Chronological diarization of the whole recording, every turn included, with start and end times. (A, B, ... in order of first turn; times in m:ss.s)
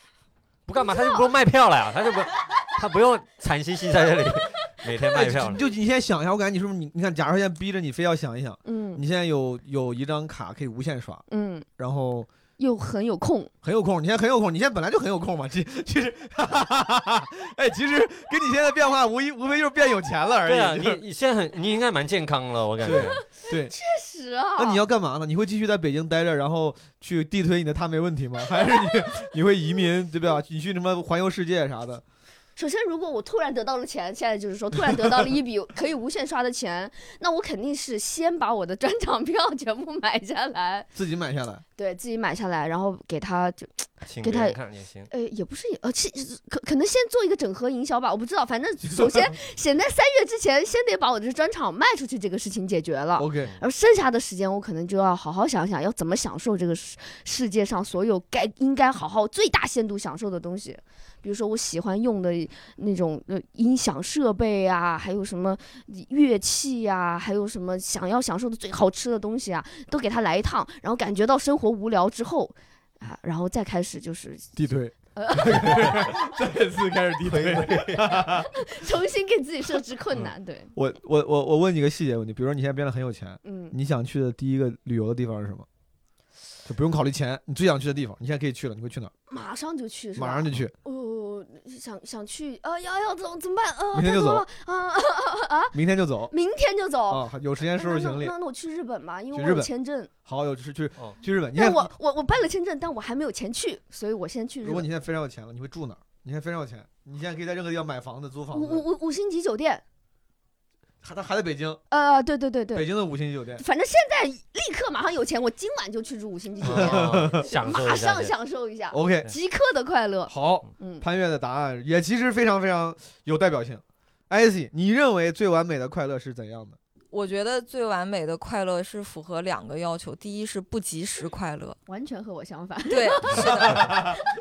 0:00.7-0:05.6 A
0:00.8-0:01.4 B
0:05.1-0:11.2 C
0:08.6-0:09.0 B
0:11.3-0:11.7 B
0:11.8-0:12.3 C
0:12.6-0:13.5 B
0:13.6-0:21.0 C
0:20.4-0:23.2 A
0:22.8-0:23.7 C
0:23.4-0:24.8 B
0:24.6-0:32.0 C
0:28.6-0:29.1 B
0:32.6-0:40.9 B
0:41.0-0:41.6 C
0:41.8-0:44.6 B
0:44.1-0:45.1 A
0:45.1-1:14.6 B
0:48.8-0:49.3 C
0:53.2-0:53.5 C
1:14.6-1:18.5 C
1:15.2-1:16.2 B
1:17.2-1:18.2 A
1:18.4-1:20.7 B
1:20.8-1:25.7 C
1:23.4-1:23.8 B
1:26.7-1:29.1 C
1:29.3-1:35.8 B
1:30.2-1:30.7 C
1:33.9-1:34.4 C
1:35.7-1:36.3 C
1:36.3-1:40.1 B
1:37.1-1:38.3 C
1:39.3-1:39.7 C
1:40.3-1:41.9 C
1:41.5-1:44.9 B
1:44.6-1:48.9 C
1:48.5-1:49.8 B
1:51.0-1:51.8 C
1:51.9-1:52.9 B
1:52.7-1:53.6 C
1:53.6-2:01.0 B
1:56.6-1:58.4 A
1:56.7-1:57.5 C
1:58.9-1:59.3 C
2:00.3-2:06.8 C
2:07.1-2:11.8 D
2:11.9-2:14.2 B
2:12.9-2:13.9 D
2:13.3-2:13.8 A
2:13.5-2:14.1 C